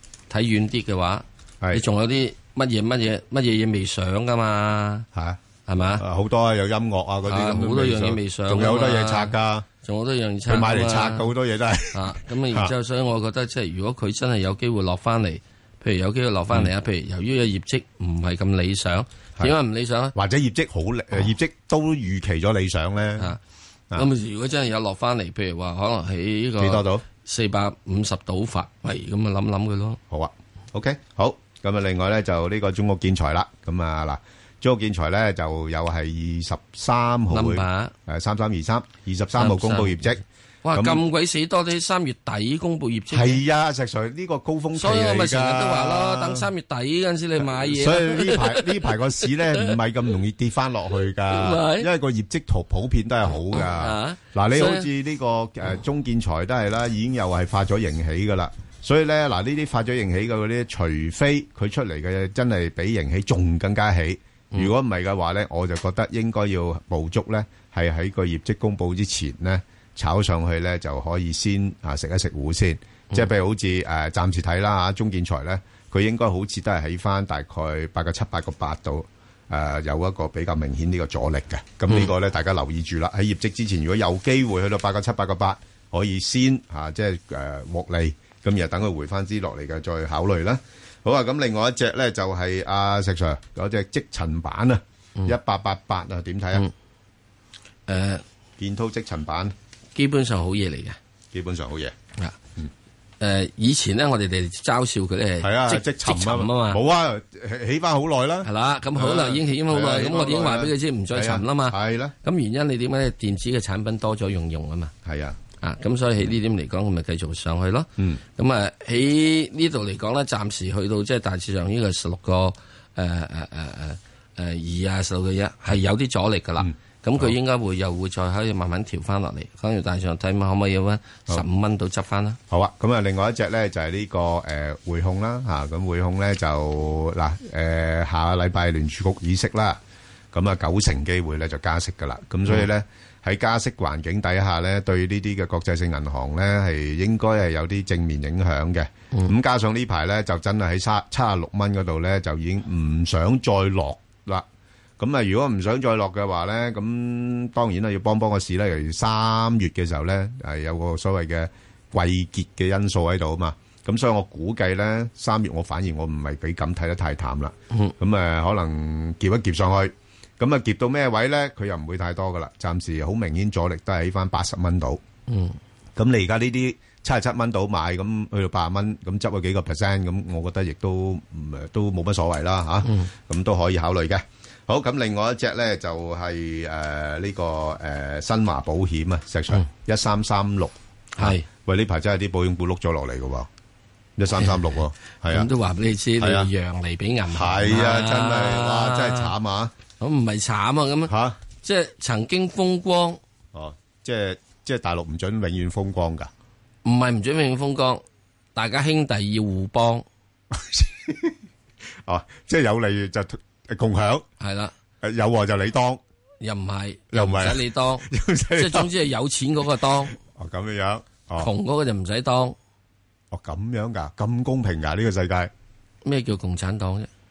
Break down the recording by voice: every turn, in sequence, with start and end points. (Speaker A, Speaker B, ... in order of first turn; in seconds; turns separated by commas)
Speaker A: 0.3-5.1, Speaker B: 5.1-5.4, Speaker A: 5.7-6.0, Speaker B: 6.0-9.7, Speaker A: 7.3-11.3, Speaker B: 10.5-12.7, Speaker A: 11.9-20.1, Speaker B: 20.1-23.4, Speaker A: 23.9-30.0, Speaker B: 26.6-27.0, Speaker B: 30.1-41.0, Speaker A: 37.3-37.9, Speaker A: 39.4-43.4, Speaker B: 43.1-46.5, Speaker A: 44.8-49.7, Speaker B: 47.4-96.7, Speaker A: 51.3-51.9, Speaker A: 53.5-54.9, Speaker A: 97.9-98.2, Speaker B: 98.6-99.5, Speaker A: 100.0-101.0, Speaker B: 101.3-102.0, Speaker A: 103.2-106.8, Speaker B: 105.4-112.2, Speaker A: 108.4-114.9, Speaker B: 115.0-115.4, Speaker A: 115.6-132.4, Speaker B: 126.6-127.3, Speaker B: 132.5-139.8, Speaker B: 140.3-154.5, Speaker B: 155.0-175.0, Speaker A: 175.3-175.6, Speaker B: 176.0-193.5, Speaker A: 182.8-183.1, Speaker A: 191.2-191.4, Speaker B: 194.2-195.5, Speaker A: 194.4-194.6, Speaker A: 195.3-199.3, Speaker B: 196.2-196.5, Speaker B: 197.3-199.7, Speaker A: 200.0-203.2, Speaker B: 201.1-201.4, Speaker B: 203.5-206.3, Speaker A: 206.8-208.0, Speaker A: 208.6-210.1, Speaker B: 210.5-211.4, Speaker B: 212.1-214.3, Speaker A: 214.4-214.7, Speaker B: 215.0-216.0, Speaker A: 216.4-220.2, Speaker B: 217.1-218.9, Speaker B: 220.2-221.5, Speaker A: 221.4-222.6, Speaker B: 223.3-225.5, Speaker A: 226.1-227.1